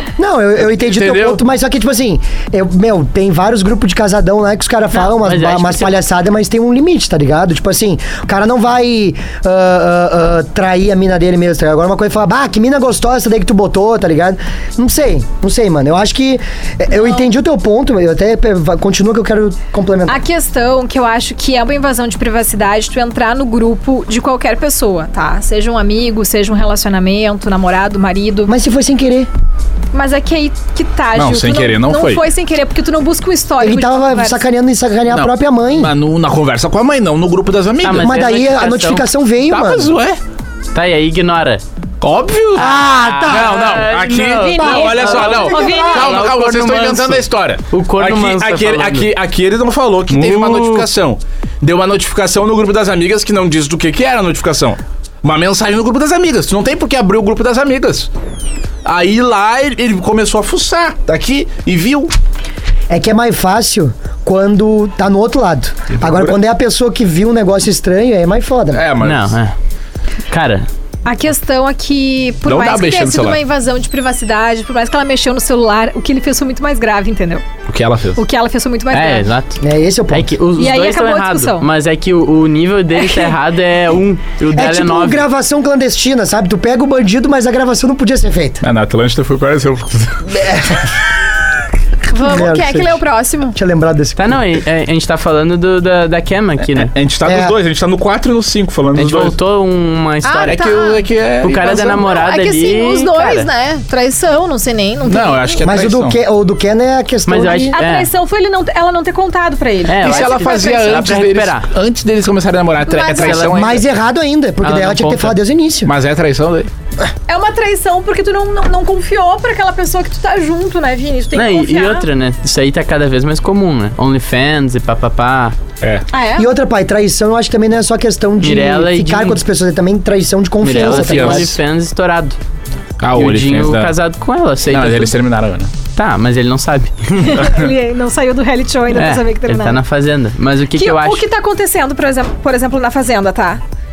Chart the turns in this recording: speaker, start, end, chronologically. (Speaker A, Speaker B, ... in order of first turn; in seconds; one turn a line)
Speaker A: 0.2-20.2
Speaker B: 0.8-1.4
Speaker C: 4.9-6.0
Speaker D: 20.1-28.5
Speaker A: 28.5-29.3
Speaker D: 29.9-34.4
Speaker B: 31.2-32.2
Speaker A: 33.6-35.9
Speaker B: 35.1-38.1
Speaker C: 37.8-39.1
Speaker A: 37.9-40.0
Speaker B: 39.5-40.2
Speaker C: 40.7-41.6
Speaker B: 42.0-58.1
Speaker A: 42.5-43.9
Speaker C: 42.6-49.1
Speaker D: 44.3-46.2
Speaker A: 44.6-46.2
Speaker C: 50.1-50.9
Speaker B: 58.8-62.1
Speaker A: 62.9-68.8
Speaker B: 66.0-66.4
Speaker B: 68.7-69.4
Speaker C: 69.0-69.5
Speaker C: 70.3-70.7
Speaker D: 71.0-77.4
Speaker B: 72.5-73.4
Speaker B: 77.7-78.2
Speaker D: 78.2-79.3
Speaker C: 78.9-85.2
Speaker A: 79.6-80.3
Speaker D: 80.6-81.7
Speaker A: 84.5-88.6
Speaker B: 88.6-90.4
Speaker A: 90.4-90.8
Speaker D: 92.1-93.6
Speaker A: 92.2-93.0
Speaker A: 93.5-94.4
Speaker C: 94.2-96.9
Speaker B: 96.7-99.4
Speaker A: 97.2-97.5
Speaker C: 99.0-100.7
Speaker D: 100.2-101.1
Speaker B: 100.5-102.0
Speaker C: 101.4-103.5
Speaker D: 101.6-105.7
Speaker B: 105.1-106.2
Speaker A: 105.6-107.8
Speaker C: 107.3-108.1
Speaker D: 107.5-111.2
Speaker C: 109.9-111.7
Speaker B: 110.0-113.8
Speaker D: 112.8-113.5
Speaker C: 113.1-113.5
Speaker A: 113.5-115.9
Speaker C: 114.6-115.4
Speaker B: 115.8-116.7
Speaker D: 117.3-122.1
Speaker C: 121.3-125.6
Speaker D: 126.1-126.5
Speaker A: 126.4-131.5
Speaker C: 128.4-129.4
Speaker C: 130.6-132.4
Speaker B: 130.7-131.5
Speaker B: 133.0-133.9
Speaker C: 133.1-135.2
Speaker B: 134.7-135.7
Speaker C: 135.9-137.5
Speaker D: 137.2-139.8
Speaker C: 138.9-141.2
Speaker D: 140.8-143.6